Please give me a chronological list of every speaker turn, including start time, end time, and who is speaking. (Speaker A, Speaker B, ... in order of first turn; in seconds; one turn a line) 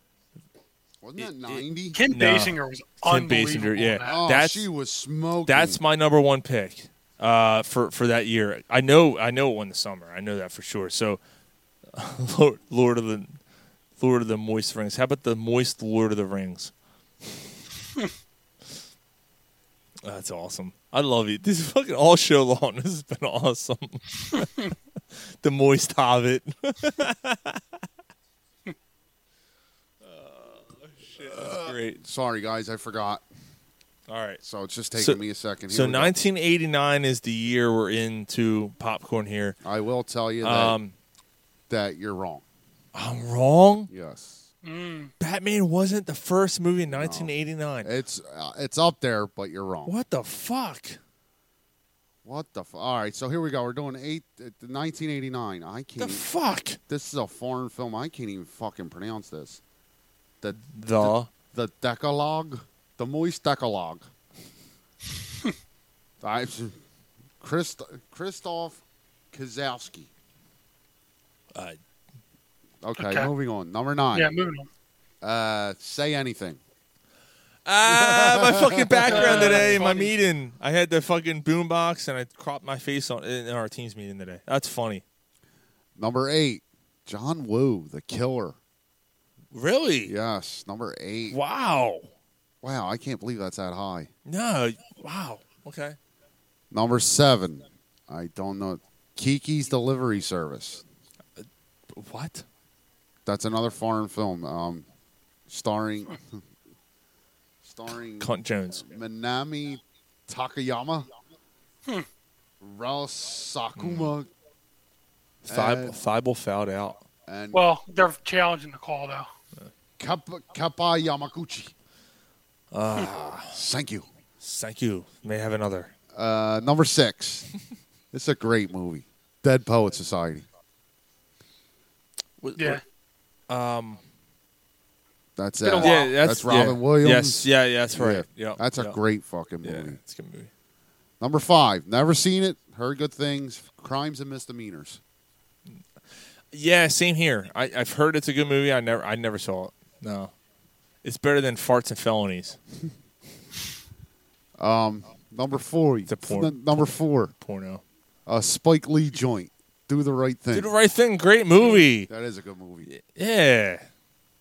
Speaker A: 1.0-2.0
Speaker B: 1.2-4.7
Speaker C: 1.9-4.1
Speaker A: 4.0-5.8
Speaker B: 5.5-11.2
Speaker B: 11.9-13.4
Speaker B: 14.0-16.7
Speaker B: 20.0-24.7
Speaker B: 25.4-27.8
Speaker B: 30.0-32.0
Speaker A: 31.4-33.2
Speaker B: 34.1-34.4
Speaker A: 34.4-36.1
Speaker B: 34.9-39.6
Speaker A: 39.6-40.8
Speaker B: 40.4-40.9
Speaker A: 41.7-42.4
Speaker B: 42.9-43.9
Speaker A: 43.9-44.4
Speaker C: 44.6-45.1
Speaker B: 45.2-47.9
Speaker A: 46.9-49.9
Speaker B: 49.9-51.0
Speaker A: 52.2-56.3
Speaker B: 56.0-56.8
Speaker A: 56.9-59.6
Speaker A: 60.4-64.0
Speaker B: 60.6-61.3
Speaker A: 66.2-66.8
Speaker A: 67.4-68.8
Speaker A: 69.3-70.1
Speaker B: 71.5-71.8
Speaker A: 72.8-74.3
Speaker C: 73.0-73.3
Speaker C: 74.1-74.7
Speaker A: 75.2-76.6
Speaker B: 77.6-85.0
Speaker A: 77.9-79.8
Speaker C: 79.1-80.1
Speaker A: 86.0-88.6
Speaker B: 89.5-90.1
Speaker A: 90.0-91.4
Speaker B: 91.3-92.1
Speaker A: 92.6-94.1
Speaker B: 94.2-96.0
Speaker A: 96.7-100.8
Speaker B: 101.4-102.4
Speaker A: 103.2-104.8
Speaker A: 105.5-106.4
Speaker A: 107.6-111.0
Speaker B: 108.2-108.8
Speaker A: 112.6-114.3
Speaker B: 113.8-114.1
Speaker B: 115.4-117.0
Speaker A: 115.5-116.0
Speaker A: 117.3-117.6
Speaker C: 117.5-119.3
Speaker A: 120.0-121.7
Speaker B: 122.7-123.5
Speaker A: 123.5-124.1
Speaker B: 124.4-125.9
Speaker A: 126.1-127.5
Speaker A: 128.1-130.4
Speaker B: 132.4-132.8
Speaker C: 132.6-132.8
Speaker B: 133.5-134.0
Speaker A: 135.4-140.0
Speaker C: 135.6-136.1
Speaker B: 135.8-138.9
Speaker B: 139.6-140.5
Speaker A: 141.2-145.0
Speaker B: 146.5-150.3
Speaker B: 151.0-152.6
Speaker A: 154.6-157.3
Speaker B: 156.1-157.8
Speaker A: 158.3-160.7
Speaker B: 160.5-162.1
Speaker A: 161.9-162.9
Speaker B: 162.8-163.8